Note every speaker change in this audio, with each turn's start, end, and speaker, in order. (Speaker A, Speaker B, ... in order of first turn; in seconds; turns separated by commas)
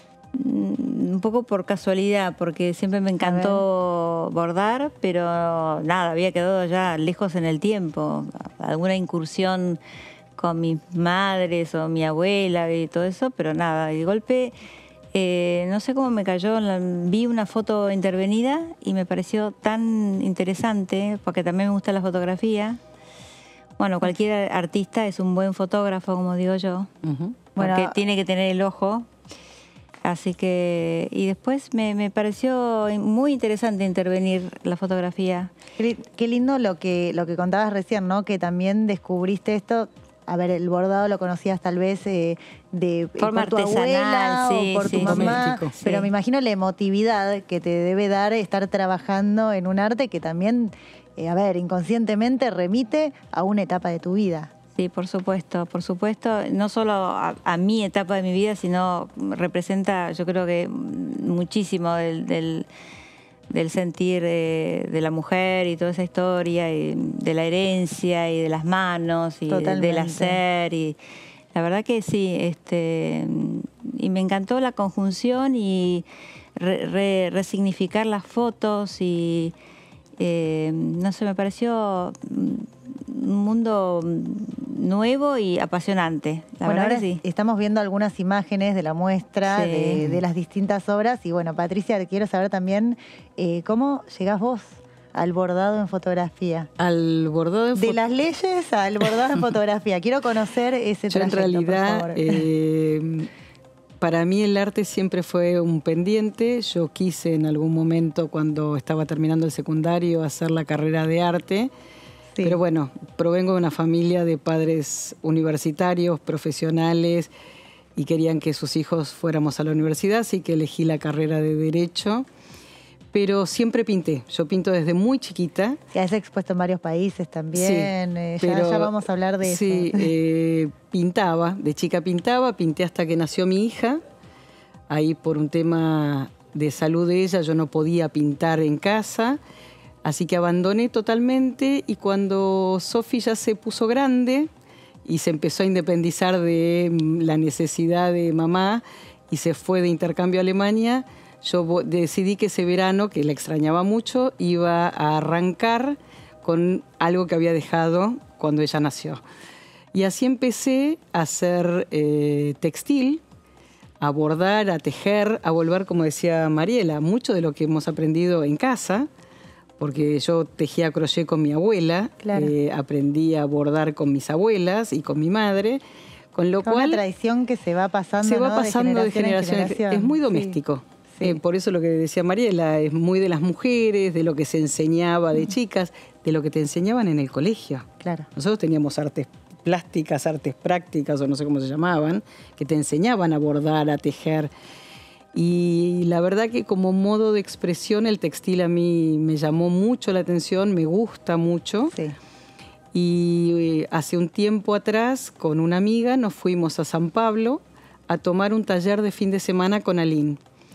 Speaker A: 0.3-9.8, Speaker B: 3.2-3.6, Speaker A: 10.4-14.6, Speaker A: 15.1-22.8, Speaker A: 23.8-26.9, Speaker C: 27.0-27.4, Speaker A: 27.6-29.1, Speaker B: 27.6-28.0, Speaker A: 30.1-35.5, Speaker B: 35.8-54.5, Speaker A: 43.2-46.1, Speaker C: 44.9-45.8, Speaker A: 54.8-62.7, Speaker A: 63.5-71.0, Speaker B: 69.5-70.4, Speaker A: 71.5-79.5, Speaker A: 80.2-87.2, Speaker B: 86.6-96.7, Speaker A: 89.5-90.2, Speaker C: 96.8-98.0, Speaker B: 97.8-102.4, Speaker C: 101.1-103.3, Speaker C: 104.0-111.7, Speaker C: 112.4-117.3, Speaker C: 118.0-122.3, Speaker C: 123.1-125.8, Speaker B: 125.9-130.1, Speaker C: 127.5-134.0, Speaker C: 134.9-139.4, Speaker C: 140.0-144.5, Speaker C: 145.1-159.2, Speaker C: 159.9-163.2, Speaker C: 164.0-169.1, Speaker C: 169.8-175.8, Speaker B: 172.2-172.5, Speaker C: 176.3-177.0, Speaker B: 176.6-180.6, Speaker C: 178.2-194.5, Speaker B: 188.0-188.3, Speaker C: 195.3-201.9, Speaker C: 202.9-210.4